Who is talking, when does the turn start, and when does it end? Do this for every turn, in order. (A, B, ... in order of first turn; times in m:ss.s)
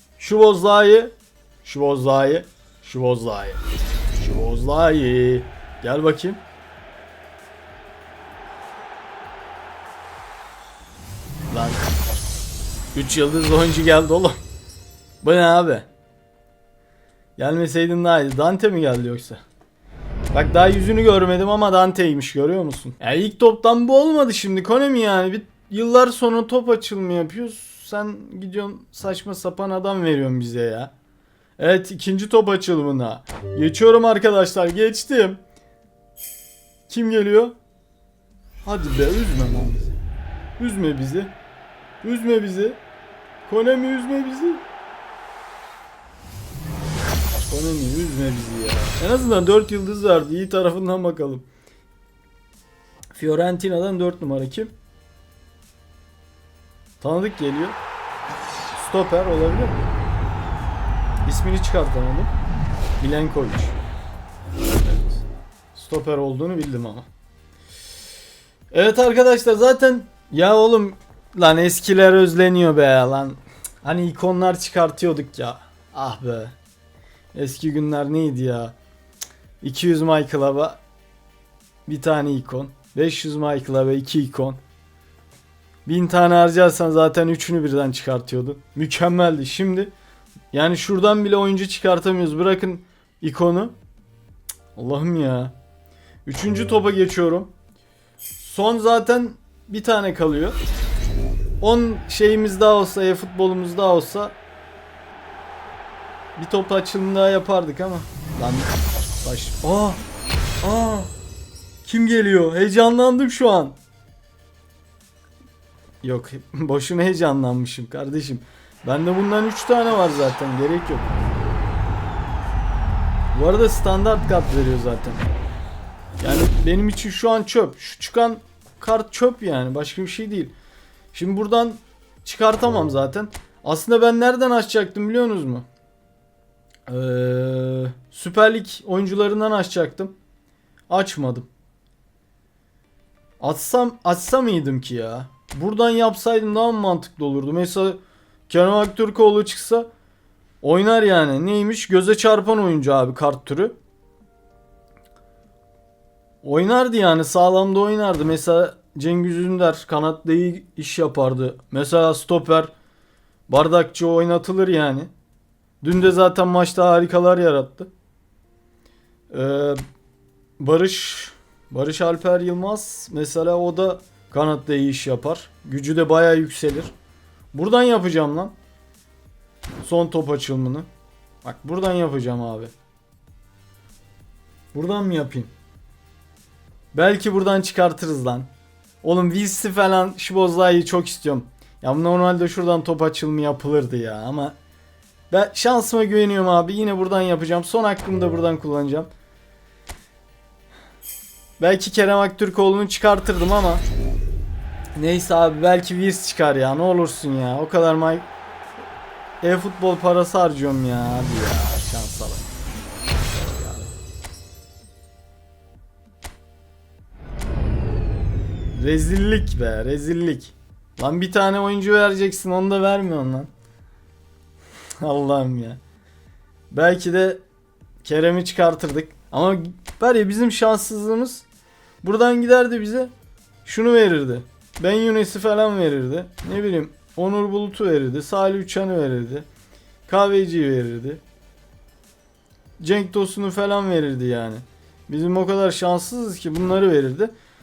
0:00.2-0:03.6 A
0:04.2-0:06.4 A
0:11.5-0:11.9 A
0:12.9-0:14.4 A
0:15.2-0:15.9 A
0:17.4-0:19.4 A
0:20.3-0:30.9 A
0:31.6-0:35.4 A
0:36.9-0:37.6 A
0:38.6-0:39.9 A
0:40.6-0:41.3 A
0:42.0-0:42.8 A
0:43.4-0:44.6 A
0:47.5-0:51.4 A
0:53.1-0:54.7 A
0:57.0-0:57.8 A
0:58.7-0:59.9 A
1:01.2-1:02.3 A
1:03.0-1:03.8 A
1:04.8-1:07.1 A
1:08.7-1:16.6 A
1:17.3-1:18.7 A
1:19.6-1:20.8 A
1:21.9-1:24.6 A
1:25.9-1:29.9 A
1:30.5-1:33.7 A
1:34.7-1:35.5 A
1:36.3-1:37.5 A
1:38.4-1:40.6 A
1:41.6-1:44.4 A
1:46.4-1:50.0 A
1:50.6-1:51.1 A
1:51.8-1:53.8 A
1:56.0-2:01.2 A
2:03.3-2:05.2 A
2:06.2-2:10.5 A
2:11.1-2:15.6 A
2:16.9-2:20.1 A
2:20.9-2:21.5 A
2:23.4-2:29.9 A
2:30.6-2:33.8 A
2:36.4-2:42.7 A
2:43.5-2:45.1 A
2:45.8-2:47.9 A
2:49.3-2:49.8 A
2:50.6-2:56.9 A
2:57.5-2:58.5 A
2:59.8-3:00.9 A
3:01.4-3:02.7 A
3:04.7-3:05.5 A
3:06.9-3:08.5 A
3:09.0-3:14.5 A
3:15.3-3:19.1 A
3:21.6-3:23.8 A
3:24.9-3:28.2 A
3:29.4-3:32.4 A
3:33.1-3:33.9 A
3:38.7-3:43.5 A
3:45.0-3:45.8 A
3:46.7-3:47.4 A
3:48.0-3:51.4 A
3:52.0-3:53.1 A
3:53.6-3:59.4 A
4:00.1-4:01.2 A
4:02.8-4:07.3 A